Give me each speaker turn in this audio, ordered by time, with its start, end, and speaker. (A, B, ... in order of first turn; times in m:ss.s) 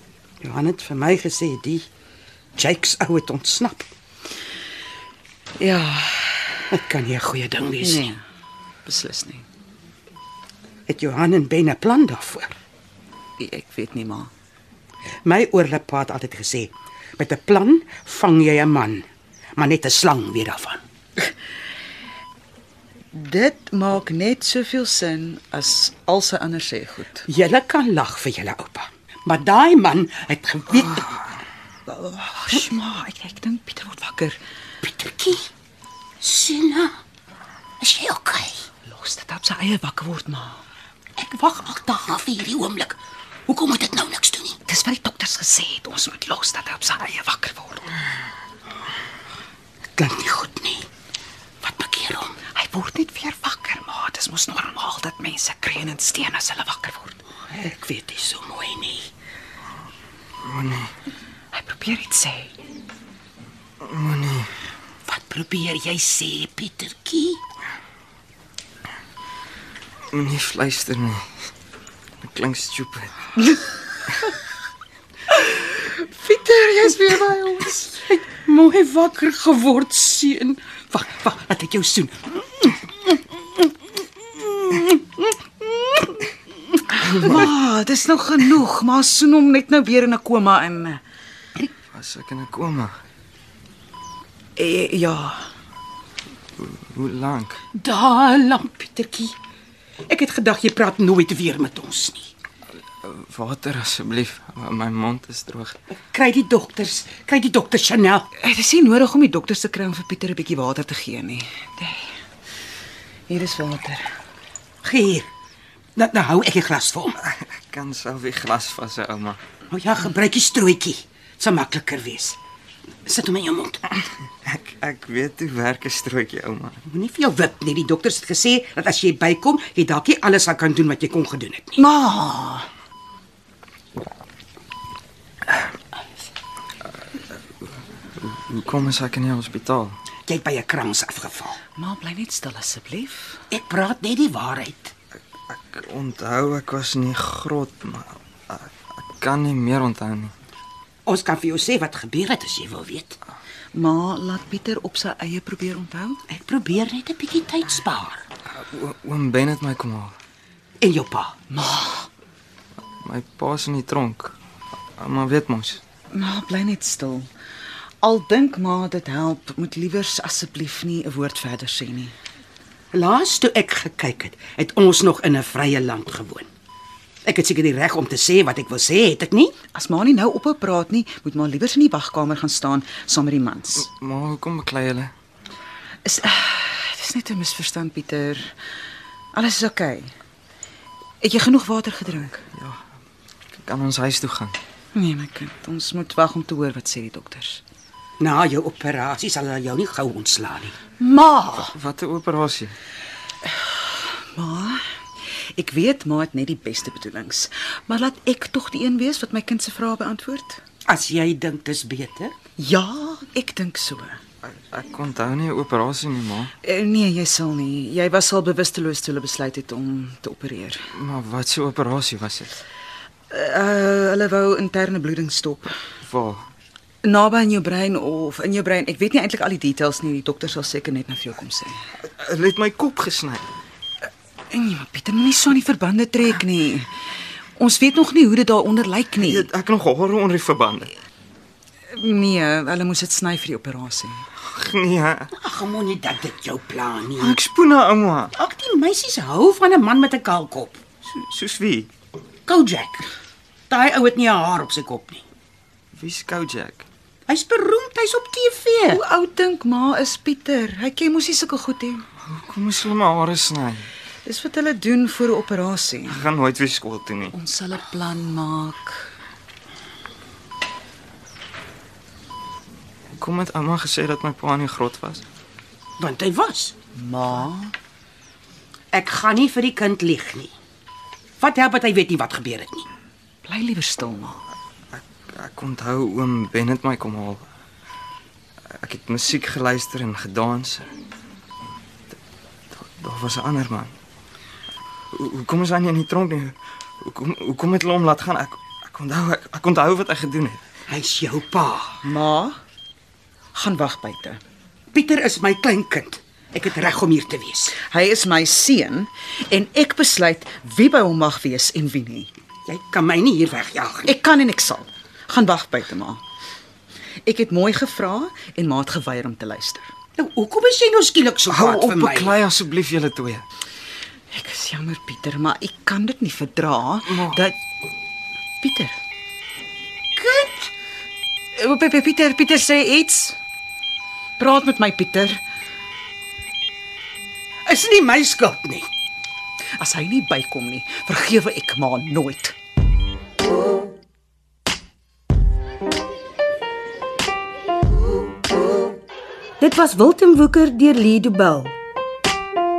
0:00.4-0:01.9 A
0:02.6-0:03.9 A
0:05.6-0:06.6 B
0:06.7-0:08.1 A
0:07.8-0:08.2 B
0:08.8-0:09.4 B
0:10.9-0:12.5 A
0:13.4-0:14.3 B
0:15.2-0:19.0 A
0:19.6-0:20.8 A
0:23.1-0:27.2 B
0:27.3-0:31.3 A
0:31.9-0:34.4 B
0:34.8-0:35.5 A
0:36.2-0:37.0 A
0:37.8-0:38.6 A
0:38.8-0:40.6 B
0:41.2-0:44.6 A
0:44.7-0:47.9 B
0:50.0-0:50.8 A
0:51.6-0:52.4 A
0:52.5-0:57.2 B
0:57.5-0:59.1 A
1:00.4-1:00.9 C
1:01.5-1:02.5 B
1:03.8-1:04.5 C
1:05.1-1:07.4 A
1:10.1-1:11.2 C
1:12.2-1:13.3 C
1:15.3-1:18.0 B
1:18.0-1:23.4 A
1:24.4-1:26.2 A
1:27.0-1:31.0 B
1:31.9-1:33.0 C
1:34.6-1:35.5 B
1:36.6-1:37.6 C
1:37.7-1:39.3 A
1:40.0-1:42.3 A
1:43.0-1:45.8 C
1:45.9-1:48.3 A
1:48.4-1:52.1 B
1:53.3-1:54.0 B
1:54.8-1:55.3 A
1:56.0-1:57.2 A
1:57.2-1:59.4 C
1:59.7-2:02.4 A
2:03.0-2:04.0 A
2:04.4-2:06.8 C
2:06.9-2:11.8 A
2:11.8-2:12.7 B
2:18.2-2:20.0 C
2:20.2-2:21.6 A
2:21.8-2:23.4 B
2:23.5-2:24.9 A
2:25.5-2:30.3 C
2:31.0-2:33.2 A
2:33.7-2:36.2 B
2:36.3-2:38.2 A
2:38.5-2:40.2 C
2:40.8-2:41.4 A
2:41.5-2:42.1 B
2:43.0-2:44.3 C
2:45.0-2:45.8 C
2:46.1-2:47.3 B
2:48.0-2:52.1 B
2:52.9-2:56.5 A
2:57.2-2:59.5 A
2:59.7-3:03.9 B
3:03.8-3:05.1 C
3:06.0-3:08.5 B
3:09.3-3:10.1 B
3:11.2-3:12.4 B
3:13.6-3:14.6 C
3:14.9-3:17.6 B
3:18.2-3:20.8 A
3:21.0-3:21.7 B
3:21.5-3:22.7 C
3:23.6-3:24.8 B
3:25.6-3:30.6 B
3:30.8-3:32.3 A
3:32.6-3:34.2 B
3:34.6-3:36.5 C
3:36.6-3:40.9 B
3:40.9-3:42.5 C
3:43.3-3:45.7 B
3:46.0-3:46.5 C
3:47.0-3:51.8 B
3:52.1-3:53.4 C
3:54.5-3:56.9 B
3:57.6-3:59.5 B
3:59.2-4:00.9 C
4:01.9-4:04.2 B
4:04.5-4:05.3 C
4:05.3-4:07.4 A
4:07.2-4:08.3 C
4:08.3-4:10.8 A
4:11.0-4:11.9 C
4:12.4-4:13.1 A
4:13.7-4:15.2 A
4:16.0-4:16.8 C
4:17.3-4:19.0 A
4:18.9-4:22.0 B
4:22.2-4:23.9 C
4:24.2-4:26.2 B
4:26.1-4:27.3 C
4:27.3-4:29.1 B
4:33.1-4:35.2 C
4:36.0-4:36.7 A
4:36.9-4:37.7 B
4:38.9-4:40.5 A
4:41.4-4:42.9 A
4:43.4-4:44.4 B
4:45.0-4:47.4 C
4:48.7-4:50.9 C
4:52.7-4:53.9 C
4:55.1-5:00.6 C
5:00.9-5:02.0 A
5:02.0-5:02.6 B
5:03.5-5:04.4 B
5:04.9-5:07.8 A
5:07.8-5:12.3 B
5:12.6-5:14.1 A
5:14.0-5:16.2 B
5:17.2-5:19.9 B
5:20.2-5:22.4 A
5:21.5-5:23.4 C
5:24.3-5:27.6 B
5:28.6-5:29.0 B
5:30.2-5:30.7 A
5:31.6-5:33.4 B
5:34.4-5:35.4 B
5:37.6-5:38.9 A
5:39.8-5:42.6 B
5:49.6-5:51.8 D